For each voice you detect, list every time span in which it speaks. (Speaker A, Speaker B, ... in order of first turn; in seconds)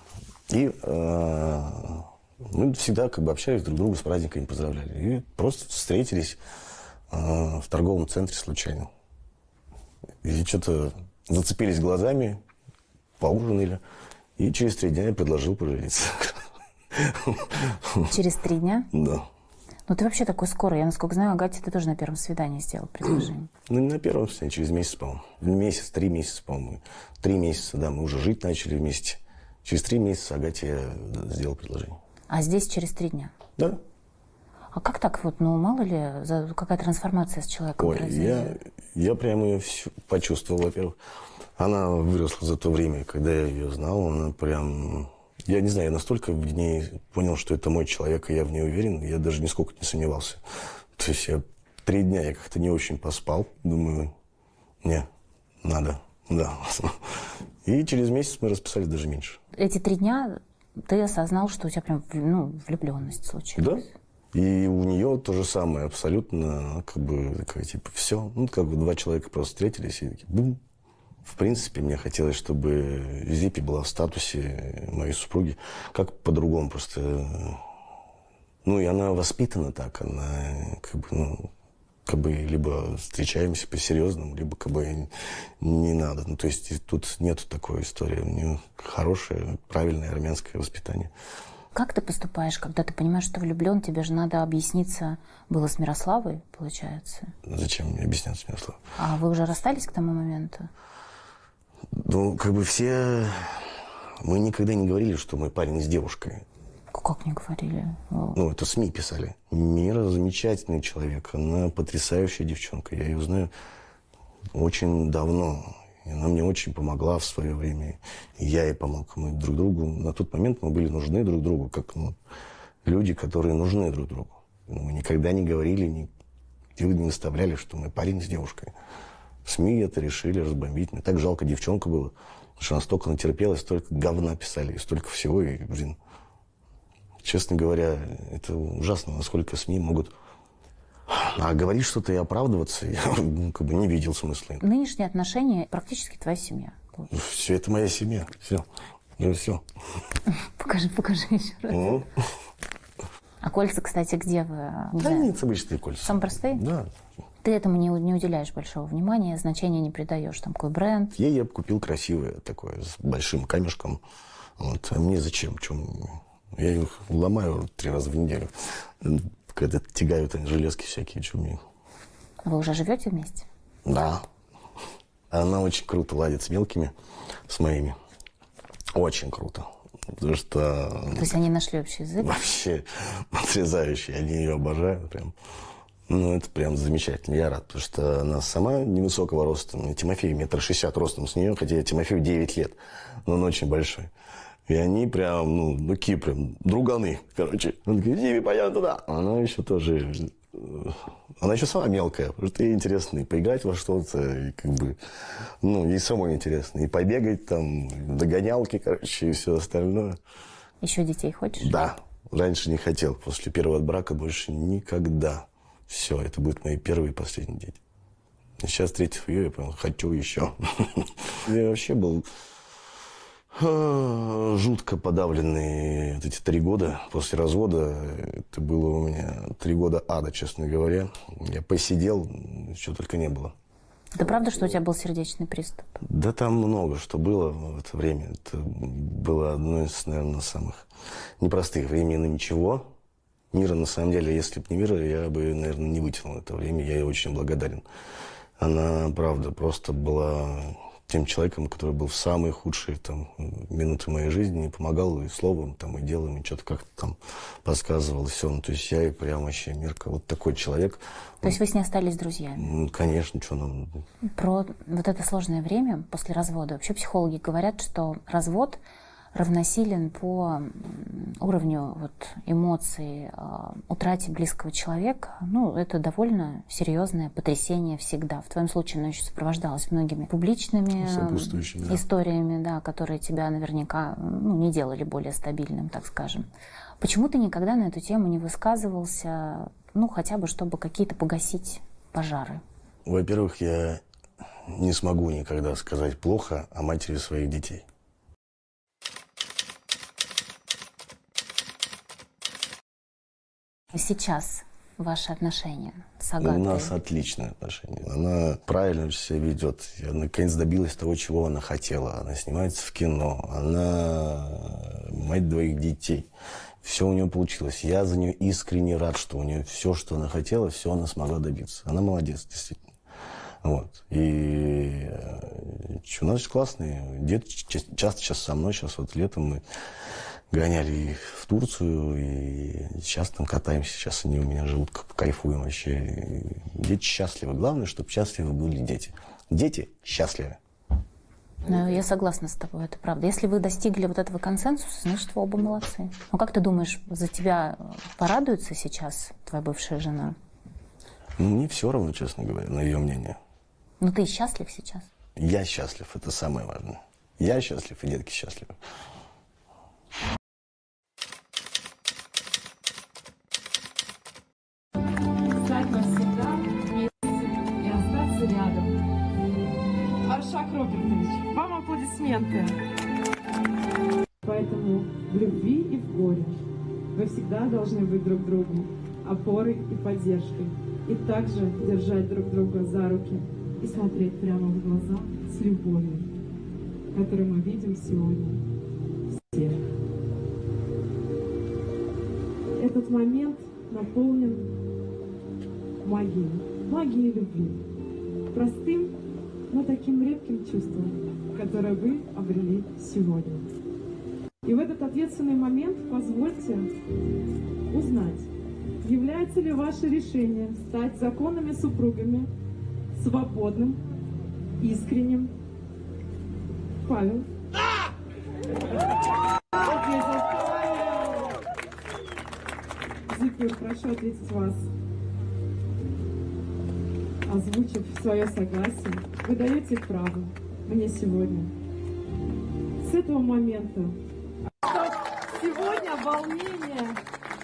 Speaker A: 0.5-6.4, 7.1-8.9, 10.2-12.4, 13.2-13.8, 14.4-18.1, 18.9-19.3, 23.7-32.0, 37.8-41.0, 41.6-50.4, 51.0-54.1, 55.6-59.4, 63.6-70.6, 71.2-77.6, 78.7-81.5, 82.0-91.1, 97.5-98.8, 101.9-106.4, 108.3-113.5, 114.5-122.2, 122.8-126.1, 126.8-128.7, 129.4-136.0, 137.2-140.1, 141.1-144.6, 147.1-148.7, 149.2-149.6, 151.7-152.2, 155.0-156.9, 161.2-164.0, 164.6-171.6, 173.8-174.2, 175.3-176.9, 177.5-178.0, 178.9-181.3, 182.2-185.3, 186.1-194.1, 194.7-210.2, 211.6-217.8, 218.6-222.2, 223.5-233.5, 236.0-240.9, 241.4-242.8, 243.5-247.8, 248.6-261.5, 262.6-264.0, 281.0-282.0, 293.1-294.0, 294.7-297.9, 306.4-316.3, 316.8-322.8, 323.6-329.6, 330.5-340.6, 351.4-353.4, 355.4-358.8
Speaker B: 18.1-18.9, 19.9-23.5, 32.3-33.3, 34.7-38.6, 59.5-63.8, 91.7-97.3, 99.0-100.7, 106.9-108.4, 144.6-147.1, 150.3-152.0, 153.4-155.3, 156.0-156.6, 157.4-161.2, 172.4-173.5, 181.1-182.4, 210.8-211.9, 234.2-235.8, 261.4-262.6, 264.3-268.8, 269.3-286.4, 287.0-292.6, 303.9-306.9, 341.6-350.4, 354.0-355.1
Speaker C: 365.5-369.0, 370.2-372.8, 374.4-376.6, 377.1-386.3, 387.1-388.6, 389.3-389.8, 392.8-394.8, 396.0-397.8, 398.5-399.2, 399.7-403.7, 404.6-406.9, 407.9-408.5, 409.0-412.5, 413.1-414.0, 414.8-415.5, 417.0-417.5, 419.7-421.6, 423.3-424.9, 427.4-431.7, 433.0-434.2, 434.8-437.2